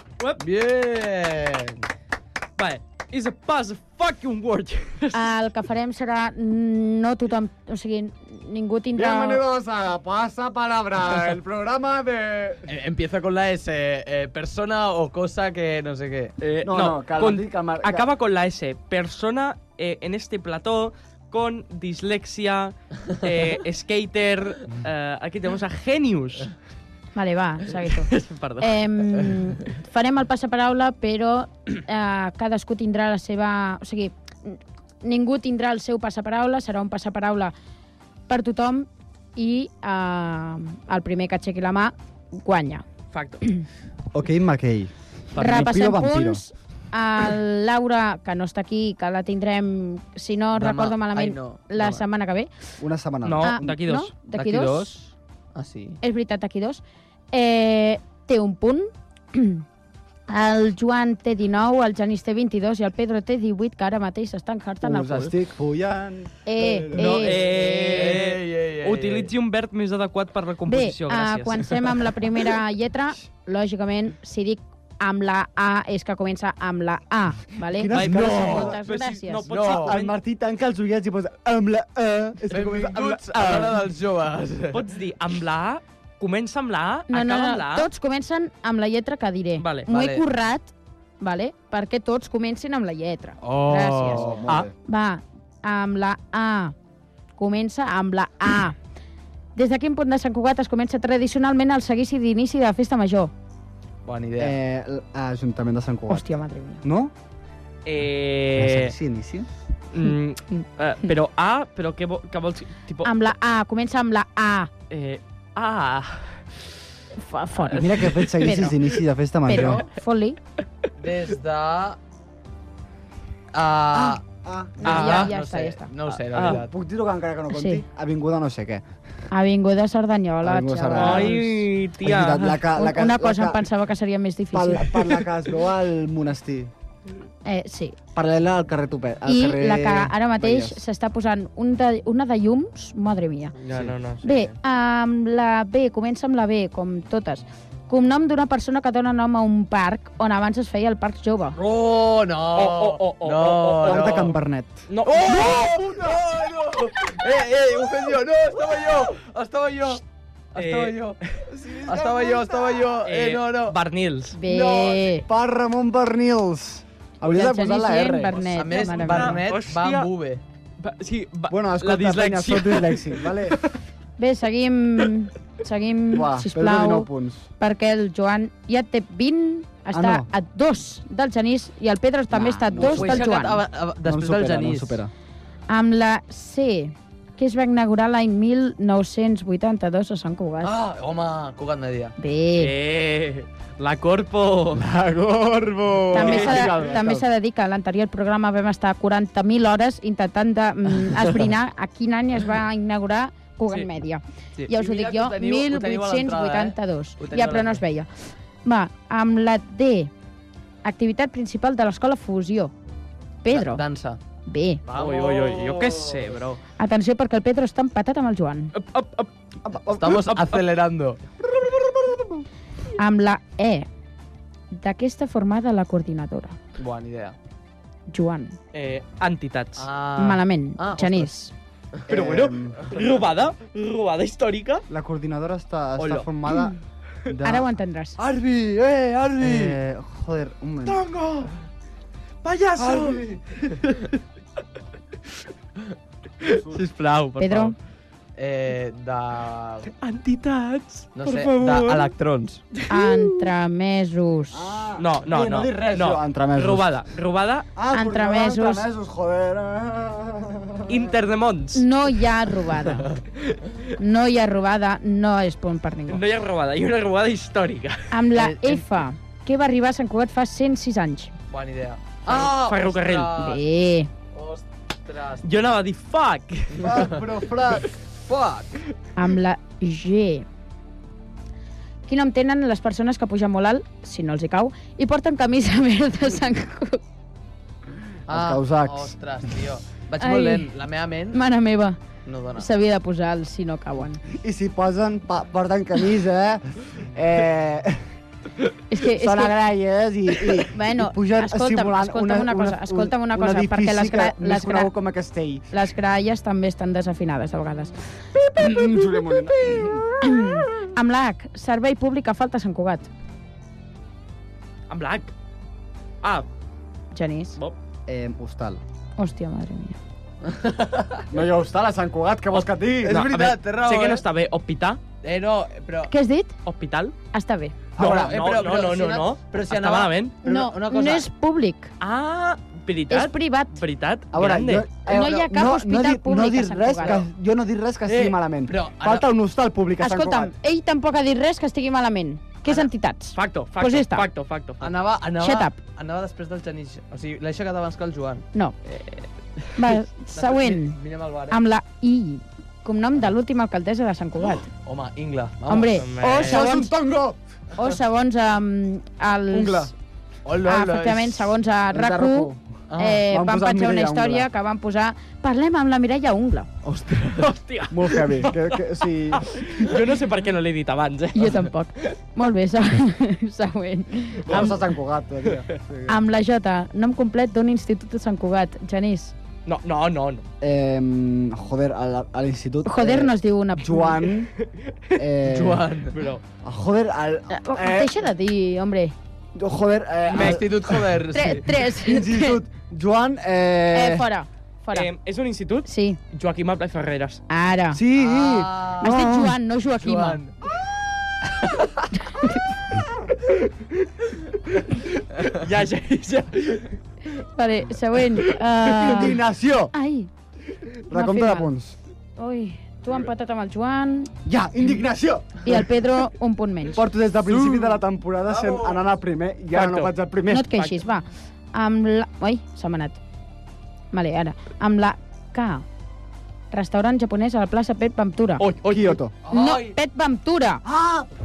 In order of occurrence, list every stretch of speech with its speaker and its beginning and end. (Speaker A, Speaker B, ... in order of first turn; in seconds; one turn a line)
Speaker A: 0.4-1.8
Speaker B: 2.6-5.3
Speaker C: 5.1-9.4
Speaker D: 8.9-12.7
Speaker A: 12.7-16.3
Speaker B: 16.4-26.5
Speaker D: 16.6-18.1
Speaker C: 27.1-37.5
Speaker B: 27.7-28.8
Speaker C: 38.3-42.8
Speaker B: 43.1-43.4
Speaker D: 44.1-46.4
Speaker B: 45.3-45.7
Speaker C: 45.4-52.5
Speaker A: 50.5-52.0
Speaker D: 52.8-53.8
Speaker B: 53.2-54.1
Speaker C: 53.4-55.0
Speaker A: 54.3-56.0
Speaker C: 56.0-59.6
Speaker C: 60.3-65.3
Speaker D: 64.8-67.3
Speaker C: 66.5-67.8
Speaker B: 67.0-71.8
Speaker A: 67.3-69.3
Speaker C: 70.7-79.5
Speaker D: 77.6-78.8
Speaker B: 77.9-80.2
Speaker A: 78.2-78.6
Speaker A: 79.5-80.0
Speaker D: 79.7-83.8
Speaker A: 82.5-84.8
Speaker B: 84.7-87.9
Speaker C: 87.1-94.3
Speaker B: 89.6-89.9
Speaker A: 89.9-90.2
Speaker A: 93.4-94.5
Speaker D: 94.1-94.7
Speaker C: 94.8-96.7
Speaker C: 97.4-98.8
Speaker C: 99.5-103.3
Speaker A: 104.0-104.6
Speaker D: 104.4-107.1
Speaker C: 106.1-106.8
Speaker B: 107.8-108.9
Speaker D: 108.5-109.5
Speaker B: 109.9-113.1
Speaker C: 110.0-110.6
Speaker C: 113.0-114.7
Speaker B: 114.9-116.6
Speaker C: 117.2-118.8
Speaker B: 117.6-118.5
Speaker D: 117.7-119.8
Speaker C: 119.5-120.4
Speaker A: 121.0-122.0
Speaker A: 123.5-124.2
Speaker D: 123.9-125.0
Speaker C: 124.8-125.9
Speaker B: 124.8-125.3
Speaker A: 124.8-126.7
Speaker B: 126.1-126.6
Speaker D: 126.4-128.8
Speaker C: 127.5-127.8
Speaker C: 129.3-131.6
Speaker D: 130.4-131.4
Speaker B: 130.9-132.6
Speaker D: 132.0-133.6
Speaker C: 132.8-135.2
Speaker D: 134.5-136.7
Speaker C: 137.4-138.0
Speaker D: 138.1-140.8
Speaker C: 139.2-143.5
Speaker B: 143.6-144.5
Speaker C: 144.2-151.6
Speaker A: 151.6-154.3
Speaker B: 152.5-154.3
Speaker D: 153.8-154.9
Speaker B: 154.9-155.7
Speaker A: 155.1-160.0
Speaker D: 155.9-156.1
Speaker A: 160.5-161.2
Speaker B: 160.5-161.4
Speaker D: 161.5-162.9
Speaker A: 161.8-163.8
Speaker B: 163.0-164.3
Speaker C: 164.3-165.3
Speaker A: 164.4-165.1
Speaker D: 165.3-168.4
Speaker C: 167.2-169.4
Speaker A: 168.4-170.4
Speaker B: 168.7-170.1
Speaker B: 170.8-173.6
Speaker D: 171.5-173.6
Speaker C: 174.2-183.6
Speaker D: 176.1-177.5
Speaker D: 179.9-180.3
Speaker D: 182.3-183.3
Speaker A: 182.8-185.0
Speaker D: 184.0-185.1
Speaker C: 185.7-190.7
Speaker A: 190.6-192.1
Speaker C: 192.2-192.7
Speaker B: 192.6-194.8
Speaker D: 194.7-197.2
Speaker C: 196.1-208.1
Speaker B: 196.1-196.9
Speaker A: 204.6-207.8
Speaker C: 208.6-210.1
Speaker C: 210.8-212.7
Speaker C: 213.4-213.8
Speaker A: 213.5-214.2
Speaker C: 214.5-214.8
Speaker A: 214.8-216.4
Speaker B: 214.9-216.6
Speaker C: 216.8-218.7
Speaker B: 218.7-219.3
Speaker D: 219.6-220.3
Speaker A: 220.0-221.2
Speaker B: 220.1-220.7
Speaker D: 221.4-222.4
Speaker C: 223.0-223.9
Speaker C: 224.7-226.6
Speaker A: 226.8-227.3
Speaker C: 228.1-228.6
Speaker B: 228.7-229.9
Speaker A: 229.8-231.3
Speaker C: 230.2-231.5
Speaker D: 232.1-232.9
Speaker B: 232.1-234.8
Speaker D: 234.9-236.7
Speaker B: 236.0-236.7
Speaker D: 237.2-237.7
Speaker C: 237.4-238.2
Speaker B: 238.2-239.8
Speaker D: 239.4-241.0
Speaker B: 240.8-241.5
Speaker B: 242.4-244.1
Speaker A: 242.8-243.4
Speaker B: 246.4-247.8
Speaker D: 246.4-246.9
Speaker C: 247.4-247.7
Speaker A: 248.3-249.9
Speaker B: 249.9-252.1
Speaker A: 251.1-252.6
Speaker B: 252.7-253.4
Speaker C: 252.9-254.8
Speaker D: 254.5-256.9
Speaker B: 255.0-257.7
Speaker D: 257.7-261.1
Speaker C: 257.9-258.9
Speaker B: 260.9-261.8
Speaker C: 261.7-263.1
Speaker C: 264.0-266.2
Speaker B: 266.1-268.1
Speaker C: 268.1-271.3
Speaker A: 268.4-268.9
Speaker A: 271.5-273.6
Speaker B: 272.2-273.4
Speaker C: 273.4-274.1
Speaker A: 274.3-275.7
Speaker B: 275.4-277.0
Speaker A: 276.8-277.2
Speaker D: 276.8-277.9
Speaker A: 278.1-278.8
Speaker C: 279.1-280.4
Speaker C: 282.1-287.0
Speaker D: 288.3-289.1
Speaker A: 288.3-291.4
Speaker C: 290.2-290.7
Speaker C: 291.3-292.0
Speaker A: 292.2-292.7
Speaker C: 292.5-294.2
Speaker D: 294.2-298.1
Speaker C: 298.9-299.6
Speaker D: 299.0-305.8
Speaker C: 300.6-304.9
Speaker C: 305.7-308.0
Speaker D: 308.3-310.7
Speaker C: 308.6-309.0
Speaker C: 310.2-313.1
Speaker B: 314.9-315.3
Speaker C: 317.1-317.6
Speaker D: 318.1-318.8
Speaker C: 319.2-320.0
Speaker A: 320.4-321.3
Speaker D: 321.3-323.3
Speaker B: 322.5-325.0
Speaker A: 323.0-324.2
Speaker A: 325.2-326.1
Speaker C: 326.1-326.6
Speaker B: 326.6-327.1
Speaker C: 327.3-327.8
Speaker D: 328.0-328.4
Speaker B: 328.0-330.3
Speaker A: 328.0-331.3
Speaker C: 330.4-331.9
Speaker B: 332.0-334.9
Speaker C: 333.1-333.7
Speaker D: 334.3-340.5
Speaker C: 335.1-337.2
Speaker A: 338.1-339.2
Speaker C: 340.0-344.3
Speaker B: 342.7-344.9
Speaker A: 344.8-348.4
Speaker C: 345.4-345.8
Speaker B: 348.9-349.2
Speaker C: 349.8-351.0
Speaker A: 350.3-351.6
Speaker C: 351.5-354.7
Speaker A: 354.7-356.0
Speaker C: 355.7-356.9
Speaker B: 356.0-356.7
Speaker D: 356.3-357.4
Speaker C: 357.8-359.9
Speaker D: 359.5-359.9
Speaker A: 360.4-361.5
Speaker C: 360.6-366.7
Speaker D: 361.9-364.5
Speaker A: 362.9-363.3
Speaker A: 366.9-367.3
Speaker B: 367.4-372.1
Speaker D: 367.9-369.9
Speaker C: 371.3-374.7
Speaker D: 374.4-376.2
Speaker C: 376.1-379.3
Speaker B: 379.6-380.4
Speaker D: 380.6-384.5
Speaker C: 382.8-384.3
Speaker B: 384.6-385.2
Speaker D: 385.1-385.9
Speaker A: 385.4-386.2
Speaker B: 386.1-386.4
Speaker D: 386.6-388.3
Speaker C: 387.5-389.1
Speaker D: 389.5-391.3
Speaker A: 390.3-391.7
Speaker B: 390.3-390.6
Speaker C: 391.3-392.6
Speaker D: 392.0-394.3
Speaker C: 393.9-395.1
Speaker B: 394.9-397.4
Speaker C: 395.9-396.2
Speaker C: 397.5-398.0
Speaker D: 397.9-399.6
Speaker A: 398.1-399.2
Speaker C: 399.0-400.4
Speaker A: 399.9-400.5
Speaker C: 402.1-402.6
Speaker B: 404.9-406.9
Speaker C: 407.5-409.4
Speaker B: 408.4-409.3
Speaker D: 408.9-409.9
Speaker C: 409.9-410.3
Speaker D: 411.1-411.9
Speaker C: 411.1-411.7
Speaker C: 412.4-414.3
Speaker D: 414.4-415.9
Speaker C: 415.6-417.0
Speaker D: 416.9-420.7
Speaker A: 417.7-419.1
Speaker B: 419.7-420.1
Speaker C: 420.5-423.2
Speaker B: 420.7-421.0
Speaker C: 424.1-425.8
Speaker C: 426.7-428.6
Speaker B: 428.6-429.2
Speaker D: 428.9-429.3
Speaker A: 429.4-430.0
Speaker C: 429.5-430.8
Speaker D: 430.8-431.3